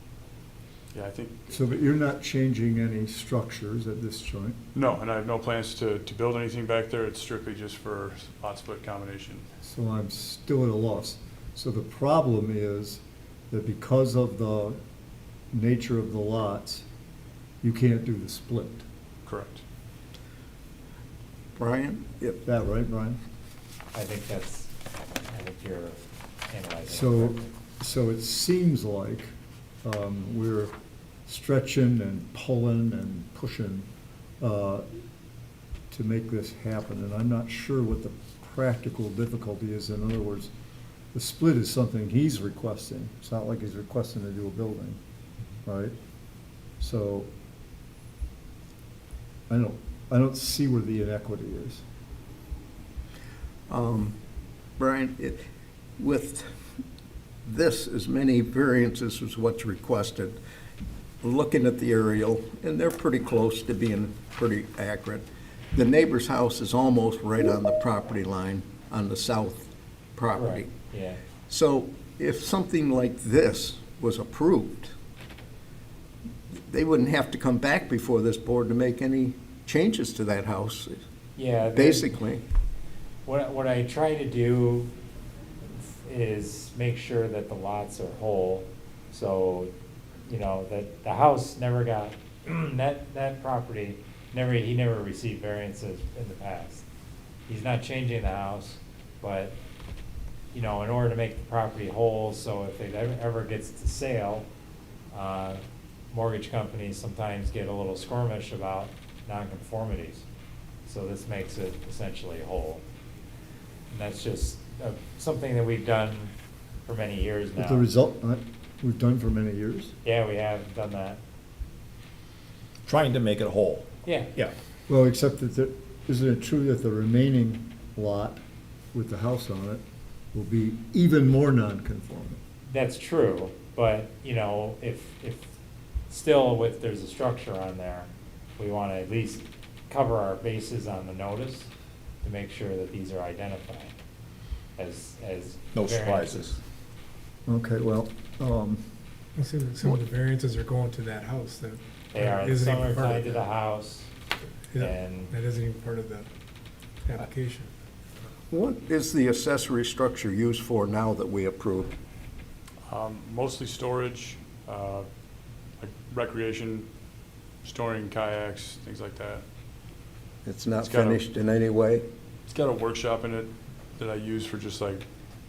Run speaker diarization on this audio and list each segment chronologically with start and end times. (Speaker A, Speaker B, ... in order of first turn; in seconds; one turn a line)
Speaker A: 0.9-1.9
Speaker B: 1.7-4.6
Speaker A: 4.7-9.4
Speaker B: 9.6-14.8
Speaker B: 15.5-16.9
Speaker B: 17.6-18.9
Speaker A: 19.2-19.6
Speaker C: 21.6-22.4
Speaker B: 22.5-23.2
Speaker D: 23.9-24.7
Speaker D: 25.3-27.5
Speaker B: 26.9-29.3
Speaker B: 29.8-30.7
Speaker B: 31.3-33.9
Speaker B: 34.4-34.9
Speaker B: 35.9-40.5
Speaker B: 41.1-45.0
Speaker B: 45.7-45.9
Speaker B: 46.8-47.3
Speaker B: 49.5-51.8
Speaker C: 53.7-54.2
Speaker C: 54.8-55.4
Speaker C: 56.0-56.5
Speaker C: 57.5-60.4
Speaker C: 61.2-65.2
Speaker C: 65.7-70.7
Speaker D: 70.3-71.2
Speaker C: 71.5-74.9
Speaker C: 76.7-81.0
Speaker D: 81.4-82.1
Speaker C: 81.7-82.4
Speaker D: 83.3-84.9
Speaker D: 85.7-89.7
Speaker D: 90.2-96.8
Speaker D: 97.5-99.6
Speaker D: 100.5-104.5
Speaker D: 105.1-110.2
Speaker D: 110.9-112.8
Speaker D: 113.9-116.3
Speaker D: 116.8-117.9
Speaker B: 117.7-119.9
Speaker D: 120.0-121.2
Speaker E: 122.9-124.5
Speaker D: 124.0-124.3
Speaker B: 124.9-128.4
Speaker B: 128.9-129.8
Speaker B: 130.3-132.4
Speaker D: 132.7-135.5
Speaker D: 136.1-141.7
Speaker D: 142.2-143.9
Speaker D: 144.8-146.6
Speaker E: 145.7-146.6
Speaker B: 147.5-148.8
Speaker F: 149.4-153.4
Speaker D: 152.1-154.1
Speaker F: 154.7-156.3
Speaker D: 154.8-155.4
Speaker F: 157.0-157.7
Speaker C: 158.5-161.9
Speaker A: 162.9-165.1
Speaker A: 165.8-166.9
Speaker A: 167.6-169.4
Speaker C: 170.4-172.1
Speaker A: 170.8-171.2
Speaker A: 172.5-175.0